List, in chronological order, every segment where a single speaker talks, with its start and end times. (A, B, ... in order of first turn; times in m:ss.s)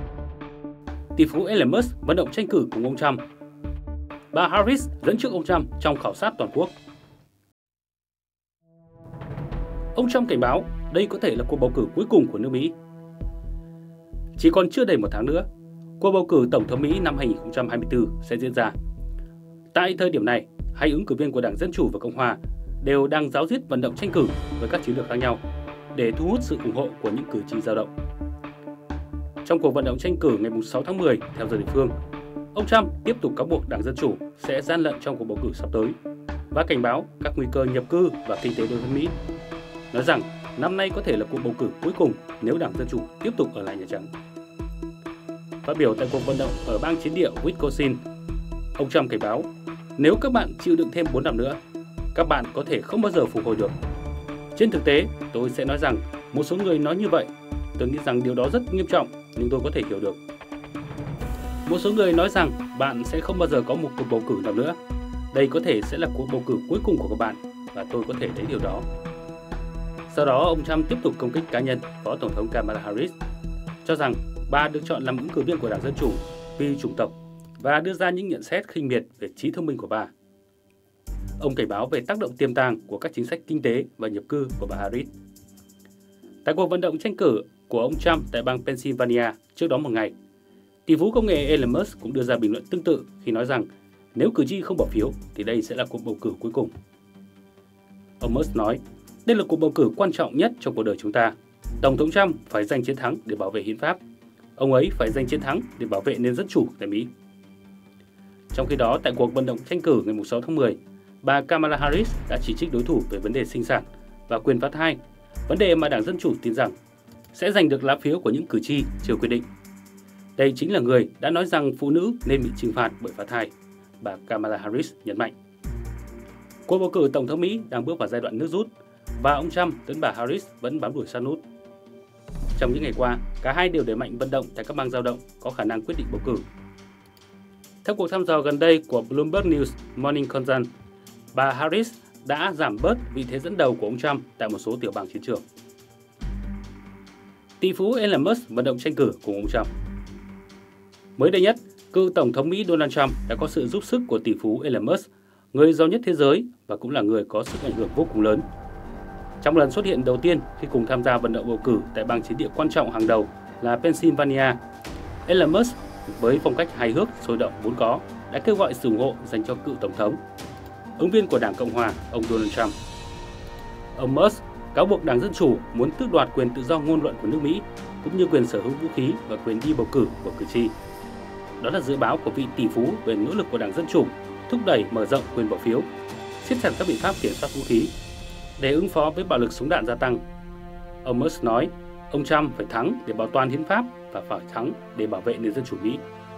0:01.2-0:03.2 A
0:04.3-0:06.7 A
0:10.0-0:12.7 A
0:14.4-0:15.5 A
0:16.0-0:18.8 A
0:19.7-0:25.4 A
0:25.9-0:27.9 A
0:29.4-0:31.9 A
0:32.5-0:36.0 A
0:36.5-0:39.1 A
0:39.9-0:44.1 A
0:45.6-0:48.0 A
0:48.8-0:51.6 A
0:52.1-0:53.7 A
0:54.6-1:00.2 A
1:01.7-1:04.8 A
1:05.3-1:08.9 A
1:10.1-1:13.2 A
1:13.8-1:20.1 A
1:21.4-1:25.1 A
1:26.4-1:30.1 A
1:30.9-1:36.7 A
1:38.2-1:44.0 A
1:44.6-1:47.1 A
1:48.5-1:56.7 A
1:57.3-1:59.5 A
2:00.4-2:05.3 A
2:06.7-2:11.4 A
2:12.6-2:16.4 A
2:17.8-2:20.7 A
2:21.3-2:25.4 A
2:27.6-2:29.7 A
2:31.2-2:38.4 A
2:39.4-2:44.6 A
2:45.3-2:50.2 A
2:51.0-2:52.8 A
2:54.0-3:00.7 A
3:01.6-3:05.9 A
3:06.4-3:07.9 A
3:08.6-3:10.2 A
3:11.0-3:16.0 A